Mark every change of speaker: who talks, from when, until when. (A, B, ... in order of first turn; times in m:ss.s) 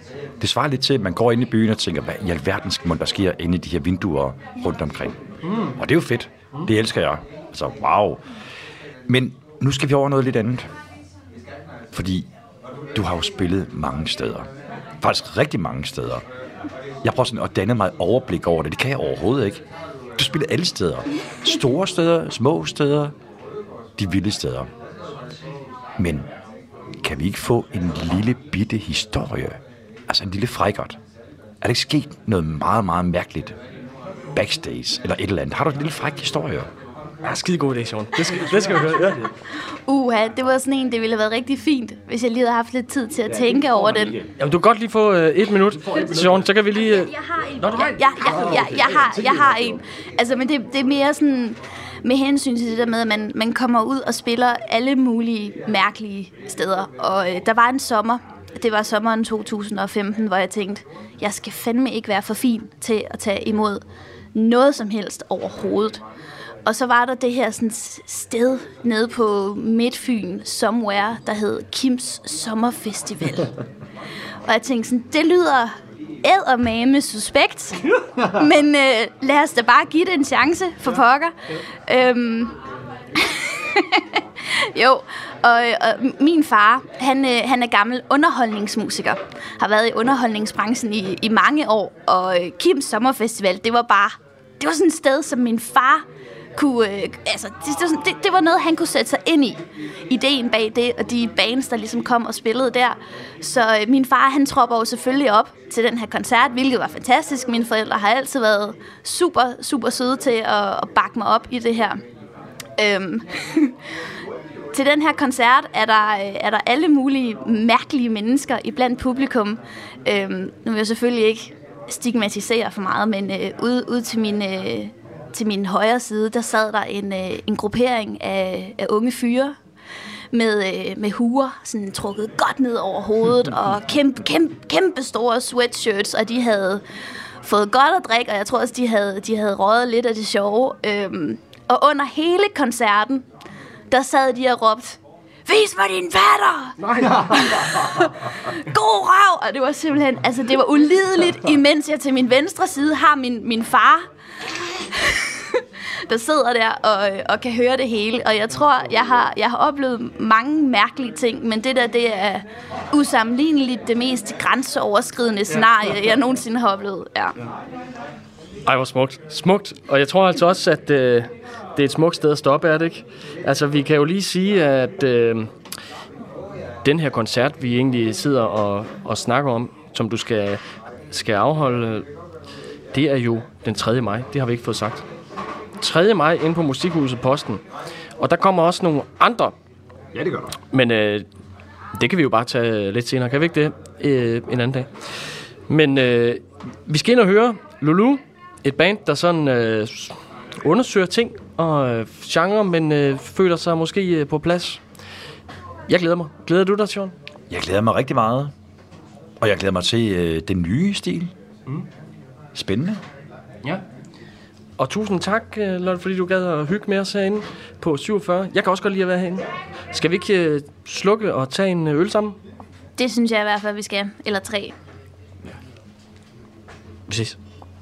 0:00.4-0:08.2 A
0:09.1-0:10.7 A
0:11.9-0:12.3 A
0:13.0-0:14.5 A
0:15.0-0:16.2 A
0:17.0-0:19.6 A
0:20.2-0:23.1 A
0:24.0-0:24.7 A
0:26.0-0:26.3 A
0:27.0-0:29.6 A
0:30.1-0:31.0 A
0:31.6-0:33.6 A
0:34.4-0:36.7 A
0:37.2-0:39.3 B
0:39.9-0:44.2 C
0:44.4-0:48.7 B
0:46.9-1:03.8 C
1:04.3-1:06.0 C
1:06.7-1:13.5 C
1:14.5-1:21.3 C
1:21.9-1:22.6 C
1:23.2-1:36.0 C
1:36.6-1:52.0 C
1:52.8-1:53.8 C
1:54.7-2:09.6 C
2:10.3-2:16.8 C
2:17.4-2:23.2 C
2:23.9-2:34.0 C
2:34.8-2:47.4 C
2:48.7-2:55.5 B
2:56.8-3:00.6 B
3:01.1-3:02.1 B
3:02.9-3:05.0 B
3:05.8-3:07.6 B
3:08.2-3:09.5 B
3:10.2-3:10.5 A
3:10.7-3:11.3 B
3:12.0-3:14.9 B
3:15.7-3:24.8 B
3:25.9-3:27.1 B
3:27.5-3:28.5 A
3:29.4-3:31.3 A
3:32.6-3:33.0 A
3:34.8-3:42.4 B
3:43.0-3:44.8 C
3:47.1-3:47.4 B